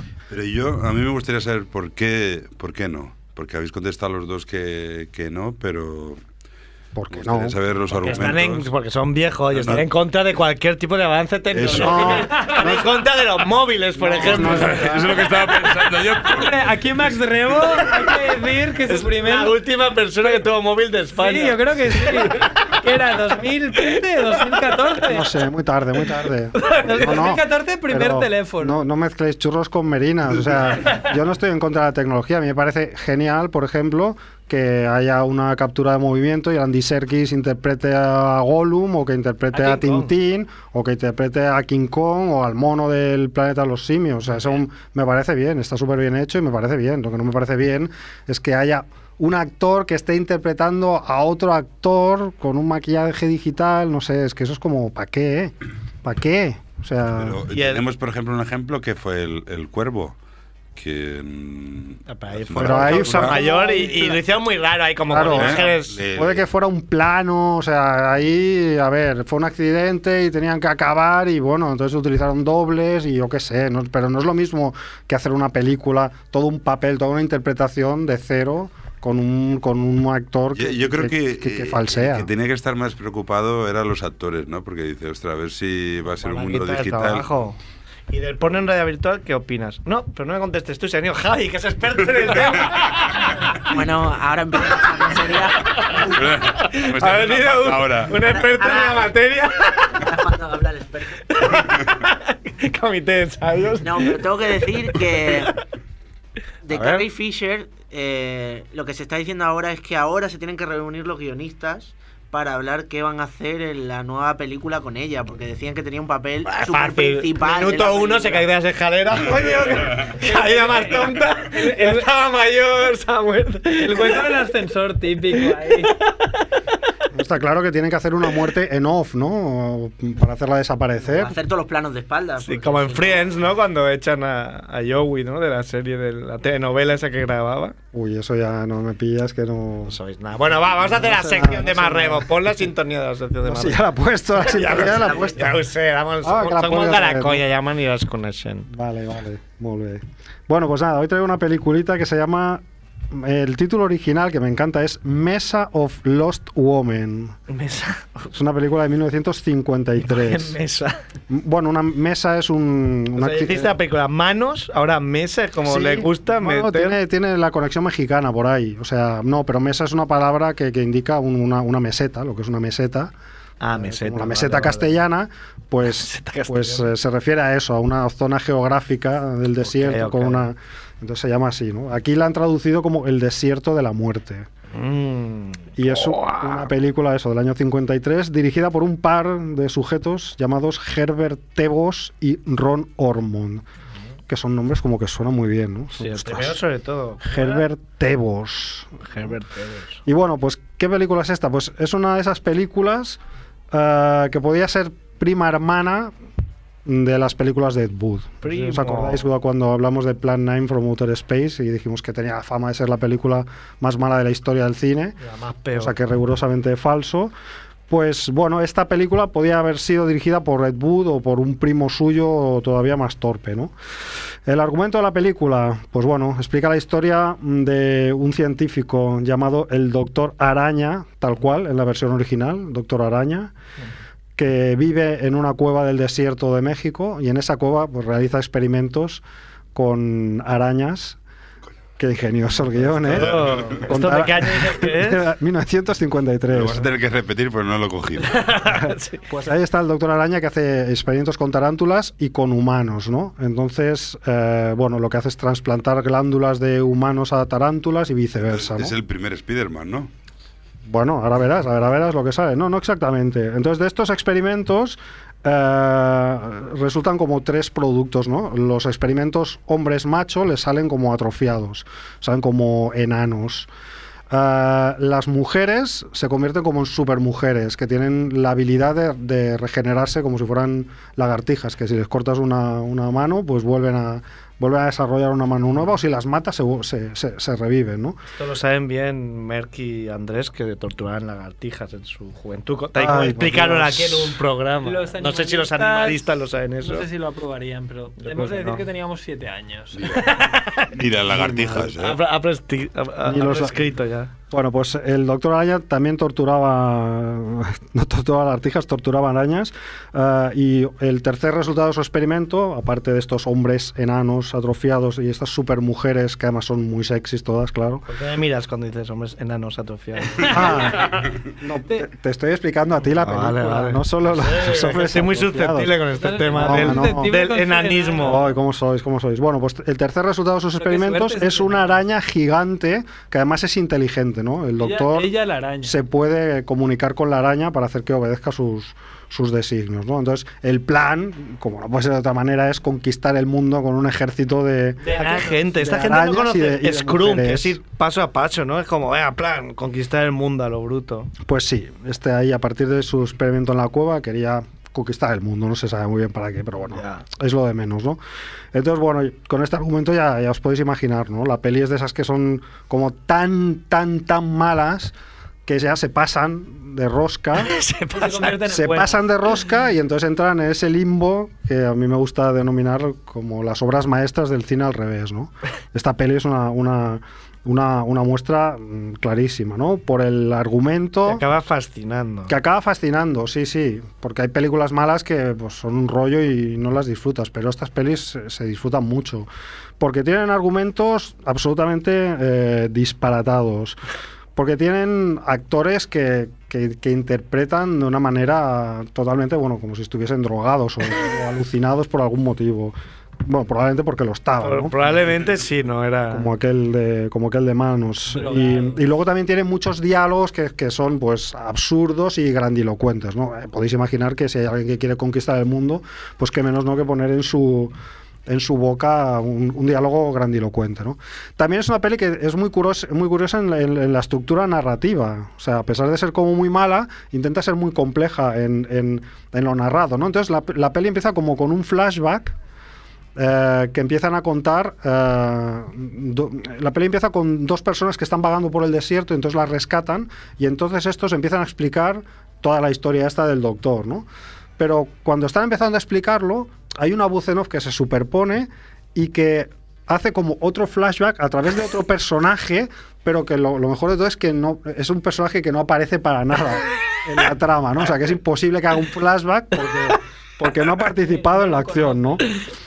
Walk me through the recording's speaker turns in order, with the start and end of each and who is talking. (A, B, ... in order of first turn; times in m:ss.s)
0:00.3-0:06.2 A
0:07.0-0:08.2 B
0:07.1-0:08.7 A
0:08.0-0:15.3 C
0:09.5-0:09.9 A
0:11.5-0:12.4 A
0:11.6-0:13.0 B
0:12.0-0:12.8 D
0:14.0-0:15.3 B
0:14.2-0:16.6 A
0:16.2-0:19.6 D
0:18.9-0:22.7 C
0:21.1-0:25.3 D
0:25.0-0:57.4 B
0:26.6-0:28.8 D
0:39.5-0:40.1 C
0:57.2-1:00.2 A
0:57.5-0:57.9 C
1:00.8-1:03.4 A
1:02.1-1:06.0 C
1:02.6-1:04.2 B
1:03.6-1:04.1 D
1:05.1-1:22.3 B
1:05.2-1:06.4 A
1:20.5-1:27.3 A
1:26.1-1:27.6 C
1:28.1-1:33.8 C
1:33.7-1:36.1 E
1:34.6-1:40.3 C
1:36.0-1:38.2 A
1:38.4-1:39.2 E
1:39.9-1:41.2 E
1:41.2-1:45.5 C
1:43.8-1:45.6 E
1:46.6-1:58.5 E
1:46.7-1:47.0 C
1:56.4-2:04.3 C
2:00.2-2:02.1 D
2:03.8-2:05.9 D
2:05.7-2:06.0 C
2:07.1-2:11.3 B
2:11.0-2:13.4 E
2:12.4-2:17.8 C
2:17.9-2:20.0 B
2:19.9-2:23.8 C
2:20.8-2:22.6 B
2:23.4-2:25.6 B
2:24.4-2:28.7 C
2:26.2-2:27.4 B
2:28.7-2:37.4 B
2:37.5-2:38.3 C
2:38.3-2:40.6 B
2:40.0-2:41.0 C
2:41.3-2:43.8 B
2:43.2-2:47.0 C
2:45.6-2:53.1 B
2:53.6-2:55.0 C
2:53.7-3:04.5 B
2:55.8-2:56.9 C
2:59.6-3:00.5 C
3:04.7-3:06.7 C
3:05.8-3:13.6 B
3:14.3-3:16.6 B
3:16.0-3:17.6 C
3:17.2-3:19.3 B
3:19.0-3:20.0 C
3:20.0-3:23.2 B
3:23.7-3:26.1 B
3:26.8-3:35.2 B
3:28.4-3:29.2 C
3:35.2-3:35.9 C
3:35.8-3:37.3 B
3:37.9-3:43.7 B
3:44.5-3:53.5 B
3:54.4-3:59.2 B
3:59.8-4:01.2 B
4:02.0-4:06.9 B
4:02.9-4:05.3 C
4:03.1-4:03.9 A
4:06.5-4:08.4 A
4:08.3-4:09.2 C
4:08.6-4:19.0 B
4:18.5-4:20.1 A
4:20.8-4:33.7 B
4:34.3-4:48.2 B
4:48.4-4:57.1 C
4:53.0-4:54.4 B
4:54.8-4:56.3 D
4:56.8-5:00.3 D
4:58.2-4:58.8 C
5:00.0-5:00.4 A
5:00.1-5:04.3 C
5:00.9-5:02.2 A
5:03.2-5:03.9 B
5:04.5-5:18.0 B
5:18.1-5:20.9 C
5:20.4-5:21.2 D
5:20.4-5:27.3 B
5:23.2-5:28.4 C
5:26.2-5:28.4 D
5:28.2-5:47.8 B
5:30.8-5:31.9 D
5:34.8-5:36.0 D
5:45.0-5:46.0 D
5:45.1-5:51.3 C
5:51.4-5:58.2 B
5:56.9-5:57.2 C
5:58.7-6:05.2 B
6:05.7-6:07.7 B
6:07.6-6:08.6 C
6:08.2-6:09.2 D
6:08.6-6:21.4 B
6:21.3-6:22.6 C
6:22.5-6:29.5 B
6:30.0-6:34.0 B
6:34.6-6:45.0 B
6:44.6-6:46.5 C
6:46.3-6:57.9 B
6:48.3-6:49.0 D
6:58.5-7:12.6 B
7:13.4-7:24.3 B
7:24.8-7:42.5 B
7:41.2-7:42.5 D